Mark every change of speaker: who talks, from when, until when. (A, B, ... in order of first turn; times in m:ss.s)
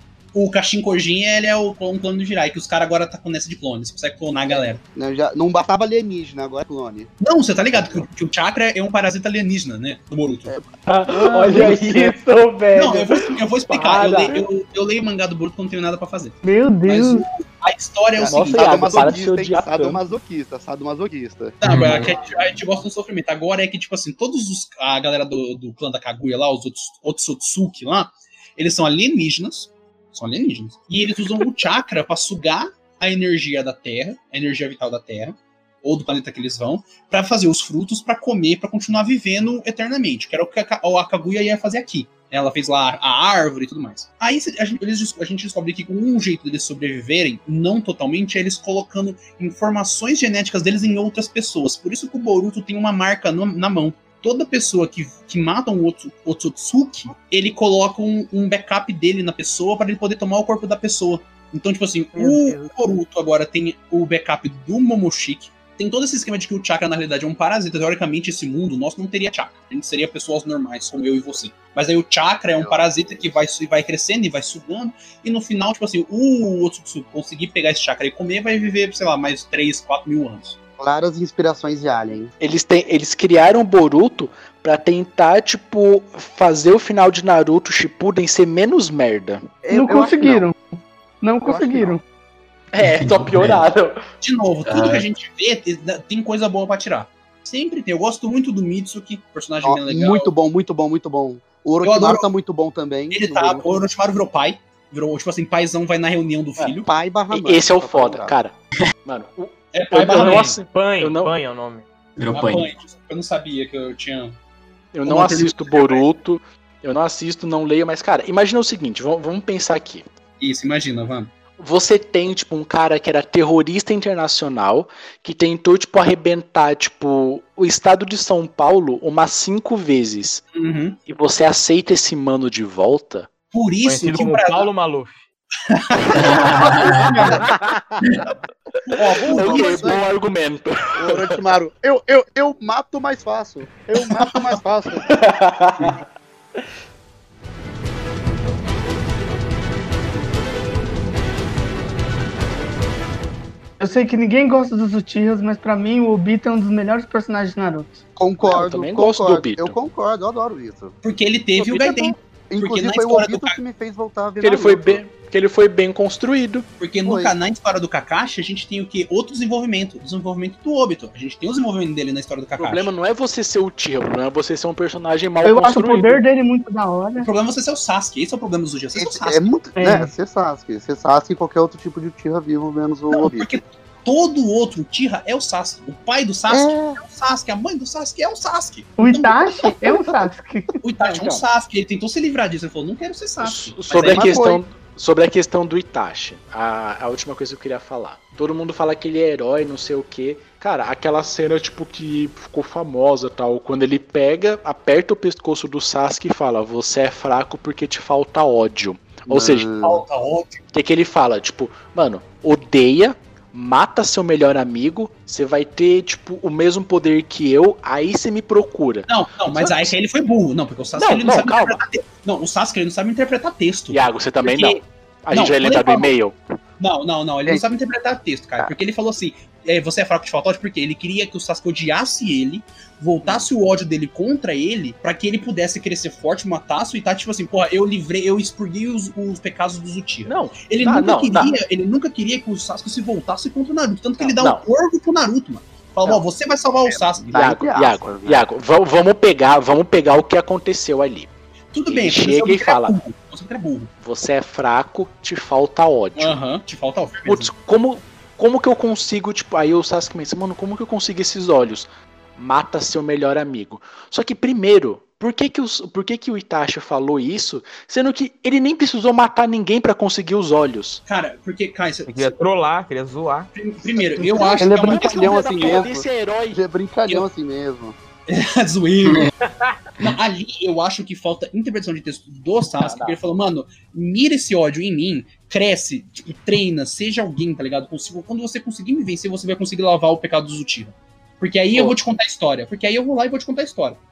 0:00.3-0:04.8 A
0:04.9-0:07.1 B
0:07.2-0:10.5 A
0:07.7-0:08.0 B
0:10.5-0:12.0 B
0:10.8-0:14.5 C
0:11.5-0:12.0 A
0:12.7-0:19.2 A
0:16.4-0:17.2 D
0:18.1-0:21.6 B
0:18.2-0:20.1 C
0:21.6-1:20.6 A
0:21.6-0:22.1 E
1:12.6-1:13.1 B
1:20.8-1:22.3 B
1:22.4-1:29.5 C
1:29.6-1:30.5 B
1:29.7-1:30.6 D
1:31.2-1:32.0 D
1:31.4-1:32.0 B
1:32.7-1:34.0 C
1:32.8-1:33.6 E
1:34.2-1:40.3 A
1:34.6-1:35.1 E
1:39.6-1:43.7 B
1:41.8-1:42.3 A
1:43.1-1:46.9 A
1:46.8-1:48.4 B
1:47.3-1:51.3 C
1:49.7-1:50.6 A
1:50.1-1:51.8 F
1:52.2-1:52.7 E
1:52.3-1:54.4 A
1:54.9-2:00.0 C
1:55.0-1:56.0 A
2:00.4-2:01.3 A
2:01.6-2:10.4 C
2:10.5-2:11.0 A
2:11.1-2:13.3 C
2:13.5-2:14.7 A
2:13.8-2:15.2 F
2:15.7-2:16.6 A
2:16.1-2:17.2 E
2:16.2-2:17.8 C
2:18.9-2:20.0 A
2:19.2-2:20.0 B
2:19.3-2:21.4 C
2:20.9-2:25.1 B
2:25.0-2:26.0 C
2:33.8-2:38.0 D
2:38.2-2:40.9 B
2:38.4-2:39.8 C
2:41.0-2:43.6 A
2:41.6-2:42.1 C
2:42.5-2:45.0 B
2:44.4-2:46.7 C
2:46.8-2:52.9 A
2:47.0-2:47.3 B
2:52.6-2:56.2 C
2:55.4-2:57.3 D
2:57.2-2:59.5 A
2:58.9-3:03.5 B
2:59.8-3:00.1 D
3:03.1-3:09.7 A
3:06.5-3:07.0 B
3:09.0-3:10.7 D
3:10.8-3:14.4 A
3:11.0-3:11.4 C
3:13.4-3:29.7 C
3:14.0-3:14.6 B
3:29.3-3:30.0 B
3:29.8-3:30.6 A
3:30.7-3:39.9 C
3:39.1-3:46.1 A
3:41.0-3:41.8 C
3:43.9-3:46.4 C
3:46.8-4:07.4 A
4:00.2-4:01.6 C
4:04.4-4:04.6 C
4:06.8-4:08.4 B
4:07.3-4:11.3 C
4:11.7-4:13.9 A
4:11.9-4:13.0 C
4:14.0-4:16.4 C
4:16.2-4:17.5 A
4:17.2-4:31.0 C
4:31.0-4:32.3 A
4:32.1-4:33.5 F
4:33.5-4:35.9 A
4:34.4-4:36.6 C
4:34.5-4:38.0 B
4:38.3-4:39.3 A
4:40.0-4:54.0 A
4:42.8-4:43.2 C